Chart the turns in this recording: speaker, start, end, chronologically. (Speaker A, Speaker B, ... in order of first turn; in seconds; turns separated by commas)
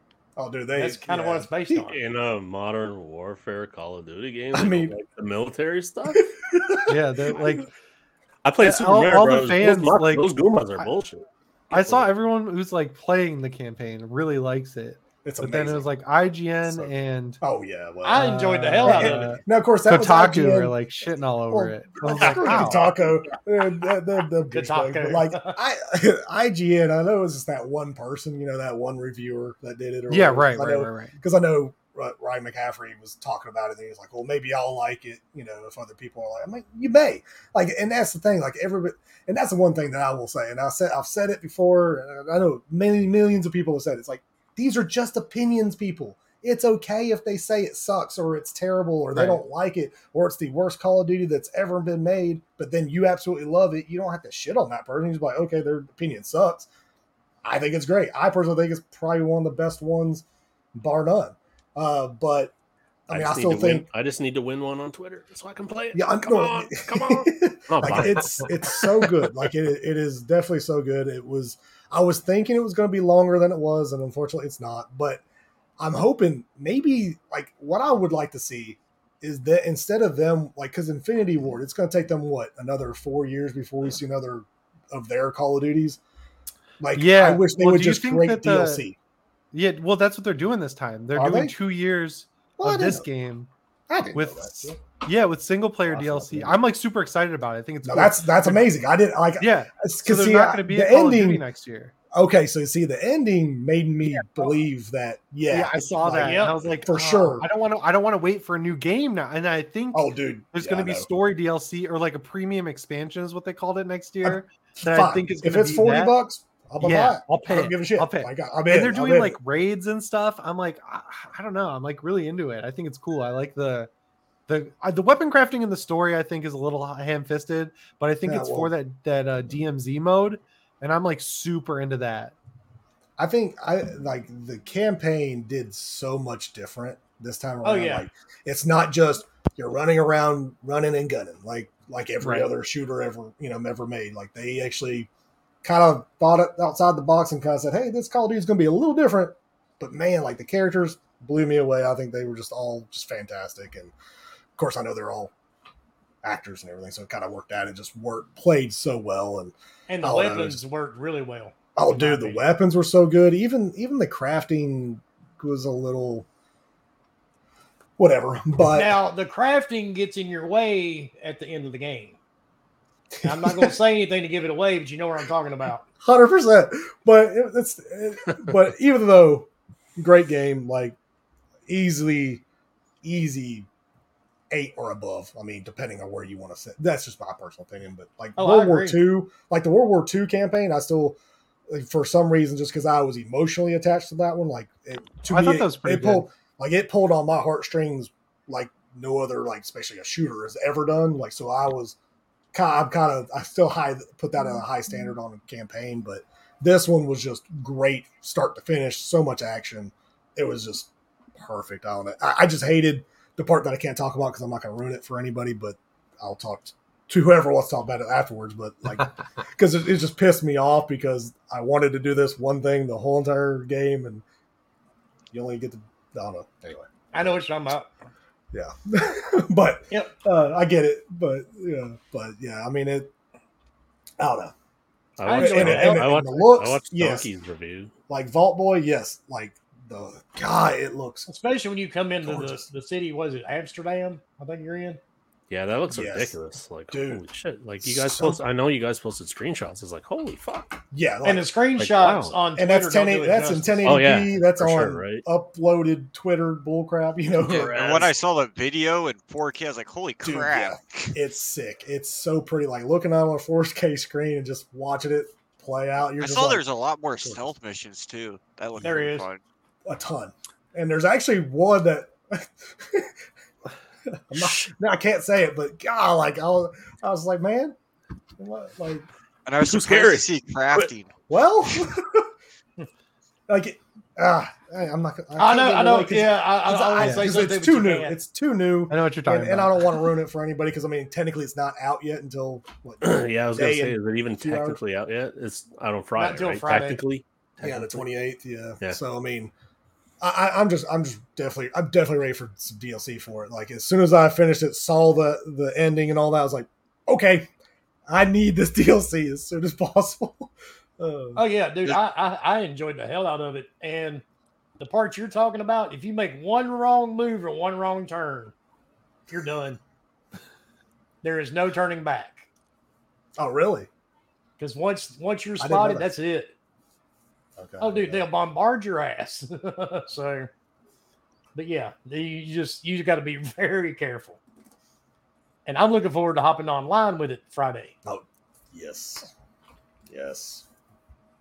Speaker A: 0.4-1.7, Speaker B: 0.8-2.0, Speaker C: 1.9-6.3, Speaker A: 4.5-4.9, Speaker A: 6.2-7.7, Speaker D: 6.9-7.7, Speaker C: 8.4-12.1, Speaker D: 8.6-10.9, Speaker D: 11.7-17.4, Speaker A: 15.2-15.9, Speaker A: 16.6-20.8, Speaker B: 18.0-19.3, Speaker D: 18.1-22.9, Speaker A: 21.5-56.7, Speaker C: 22.1-22.7, Speaker B: 24.5-25.6, Speaker D: 30.1-31.2, Speaker D: 49.1-49.4, Speaker A: 57.4-60.2, Speaker A: 60.7-62.5, Speaker A: 63.1-63.9, Speaker C: 63.1-69.5, Speaker A: 65.9-75.2, Speaker A: 75.8-86.0, Speaker A: 86.8-89.0, Speaker D: 86.9-88.9, Speaker D: 89.5-93.5, Speaker A: 91.1-91.5, Speaker A: 92.6-93.0, Speaker A: 93.9-94.8, Speaker D: 94.1-98.7, Speaker A: 95.9-96.6, Speaker A: 97.8-101.5, Speaker D: 99.4-101.9, Speaker A: 102.1-107.5, Speaker D: 104.1-104.5, Speaker D: 105.5-116.2, Speaker B: 106.2-106.5, Speaker A: 109.9-111.1, Speaker A: 114.2-119.4, Speaker D: 116.8-123.9, Speaker D: 124.5-132.4, Speaker A: 128.3-128.7, Speaker A: 133.2-145.1, Speaker B: 137.6-138.1, Speaker D: 142.2-142.5, Speaker A: 145.6-153.9, Speaker A: 154.6-155.3, Speaker A: 156.2-160.6, Speaker B: 159.9-162.4, Speaker A: 161.7-166.3, Speaker A: 168.0-169.0, Speaker B: 168.7-172.2, Speaker A: 173.2-173.7, Speaker B: 173.2-175.8, Speaker A: 176.0-180.9, Speaker A: 181.7-182.4, Speaker A: 183.0-183.7, Speaker A: 184.5-191.2, Speaker B: 188.4-189.0, Speaker A: 191.7-201.9, Speaker D: 195.3-196.3, Speaker A: 202.5-224.2, Speaker A: 225.3-227.4, Speaker B: 227.1-227.9, Speaker A: 228.5-233.1, Speaker A: 234.2-234.5, Speaker C: 235.2-237.9, Speaker B: 235.3-236.1, Speaker A: 235.3-237.3, Speaker A: 238.1-241.3, Speaker B: 241.3-245.0, Speaker A: 242.2-242.6, Speaker C: 245.5-250.8, Speaker A: 245.9-246.4, Speaker A: 246.9-247.2, Speaker A: 247.8-248.4, Speaker A: 250.9-251.5, Speaker B: 251.2-253.8, Speaker C: 251.8-252.4, Speaker A: 252.5-258.0, Speaker C: 253.8-255.3, Speaker C: 257.4-258.2, Speaker E: 257.6-261.2, Speaker A: 260.2-266.6, Speaker E: 266.2-269.4, Speaker B: 268.8-269.3, Speaker A: 269.9-273.1, Speaker A: 274.1-277.8, Speaker C: 274.3-274.7, Speaker A: 278.4-279.1, Speaker E: 279.5-281.1, Speaker C: 279.6-280.9, Speaker A: 281.3-282.3, Speaker A: 283.5-294.8, Speaker B: 285.4-288.2, Speaker D: 287.0-287.3, Speaker D: 288.9-290.0, Speaker C: 293.0-298.1, Speaker B: 296.2-297.0, Speaker A: 297.6-299.5, Speaker A: 300.2-307.5, Speaker A: 308.1-311.4, Speaker B: 311.3-314.2, Speaker B: 314.8-318.5, Speaker B: 319.3-319.8, Speaker B: 321.2-322.5, Speaker A: 323.4-323.9, Speaker B: 324.6-326.5, Speaker A: 325.6-326.1, Speaker A: 327.6-328.3, Speaker B: 327.8-330.5, Speaker B: 331.5-334.4, Speaker B: 335.7-337.9, Speaker A: 338.0-339.3, Speaker A: 340.1-340.6